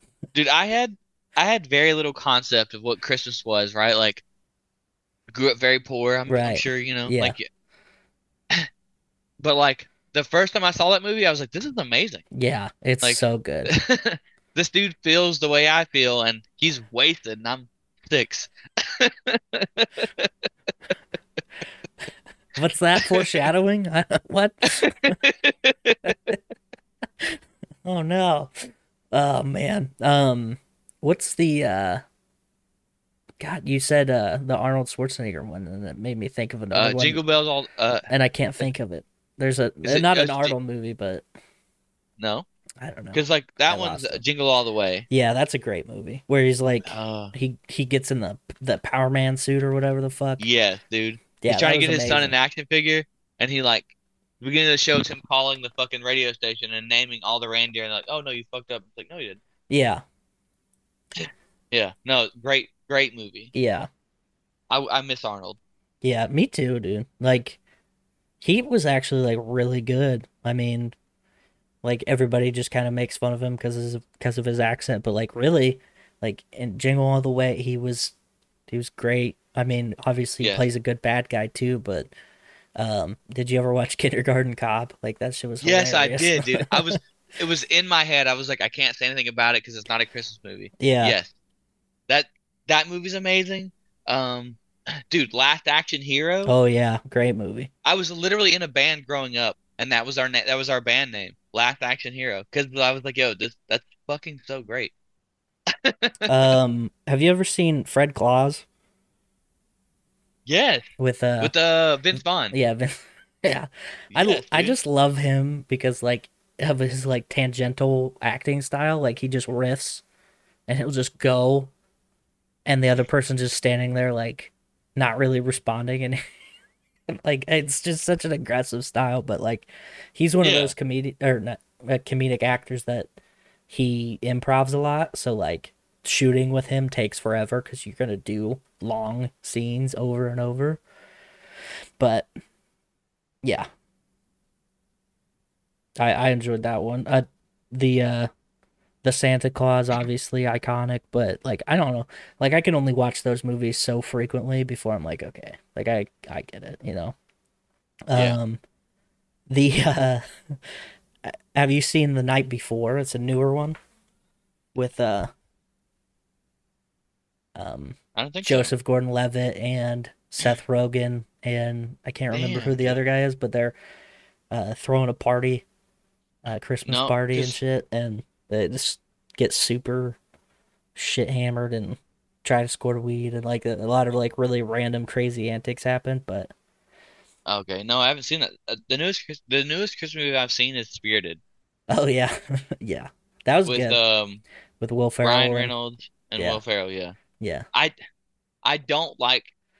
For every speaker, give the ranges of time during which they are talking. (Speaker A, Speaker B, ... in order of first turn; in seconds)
Speaker A: 0.3-4.2, 5.3-7.5, 9.4-12.2, 13.0-20.3, 23.0-23.4, 24.8-26.1, 36.7-38.1, 39.8-40.5, 42.2-42.5, 43.1-45.1, 46.9-47.3, 50.4-53.9, 54.4-59.4, 61.2-63.5, 64.7-65.6, 85.6-91.3, 92.1-96.5, 97.8-104.9, 105.8-106.3, 110.5-110.9, 111.4-112.5, 114.1-114.8, 130.4-130.8, 168.2-168.7, 172.3-173.0, 176.8-177.6, 187.5-191.4, 193.7-194.4, 195.2-197.2, 198.6-199.5
Speaker B: 6.3-7.4, 12.3-13.7, 22.6-25.2, 26.1-26.4, 27.2-32.0, 33.4-37.2, 38.1-41.2, 42.8-44.2, 45.1-50.4, 51.4-52.4, 59.7-60.0, 63.5-63.9, 66.0-67.6, 68.4-71.0, 71.8-78.1, 78.7-82.1, 82.8-87.0, 90.8-91.2, 96.5-97.7, 106.3-108.7, 111.0-111.5, 112.5-120.0, 120.7-121.7, 122.7-126.2, 127.2-133.1, 133.7-140.8, 142.0-142.3, 146.0-148.3, 149.0-157.2, 158.1-158.6, 159.5-160.6, 161.2-163.8, 164.8-165.3, 167.6-173.8, 174.5-175.7, 176.4-180.2, 180.9-186.5, 191.9-194.0, 194.8-195.7, 196.4-196.6, 197.4-197.7